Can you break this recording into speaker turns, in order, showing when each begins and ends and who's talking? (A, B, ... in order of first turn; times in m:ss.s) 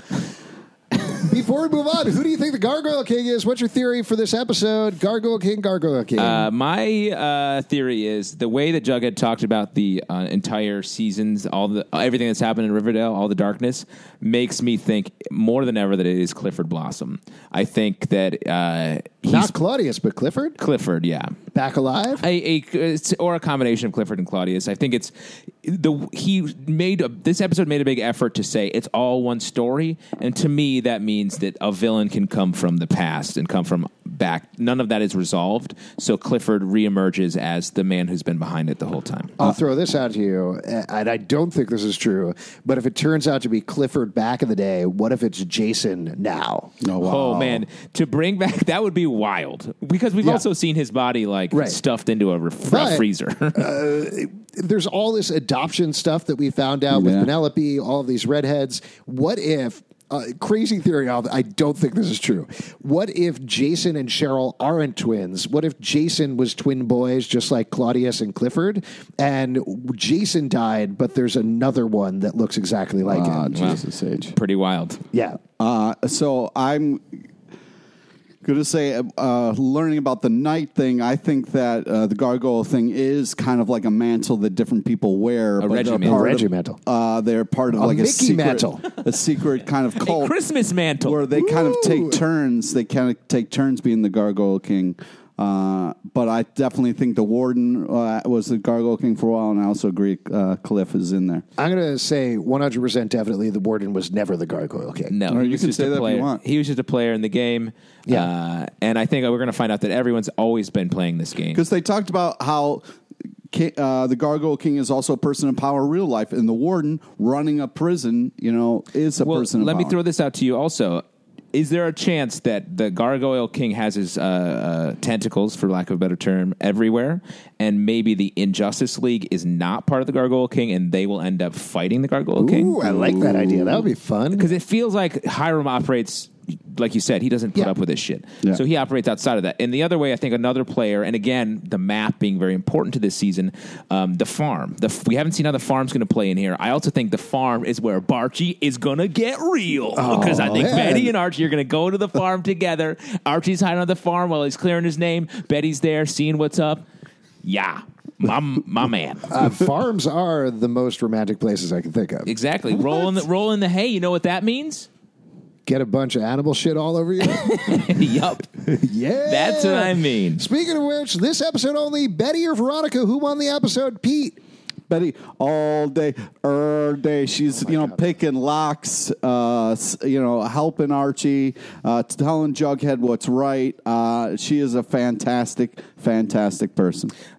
0:01.0-0:06.5 A
0:06.2-0:19.5 B
0:19.3-0:20.6 A
0:20.6-0:21.4 B
0:21.5-0:22.2 A
0:22.2-0:39.4 B
0:39.4-0:46.7 A
0:46.8-0:47.6 C
0:47.0-0:53.7 B
0:51.5-0:51.8 A
0:52.7-1:13.6 A
0:56.9-0:57.3 C
1:13.0-1:14.4 C
1:13.5-1:13.8 B
1:14.3-1:15.0 B
1:15.1-1:15.4 A
1:15.6-1:17.2 C
1:18.4-1:30.3 C
1:25.6-1:26.2 B
1:26.0-1:26.8 A
1:27.8-1:28.8 A
1:30.0-1:31.2 B
1:31.0-1:41.4 C
1:31.3-1:32.2 A
1:41.6-1:45.1 A
1:45.1-1:51.6 B
1:45.3-1:46.4 C
1:51.5-1:52.8 C
1:53.5-2:00.0 C
1:59.2-2:12.8 B
2:12.4-2:14.5 A
2:12.8-2:13.9 C
2:14.3-2:36.8 B
2:29.9-2:31.1 A
2:37.4-2:39.3 B
2:39.3-2:43.1 A
2:42.2-2:44.9 B
2:45.6-2:47.9 A
2:47.2-2:48.5 B
2:48.6-2:54.4 A
2:49.2-2:50.4 B
2:54.9-3:07.1 C
2:57.6-2:58.1 A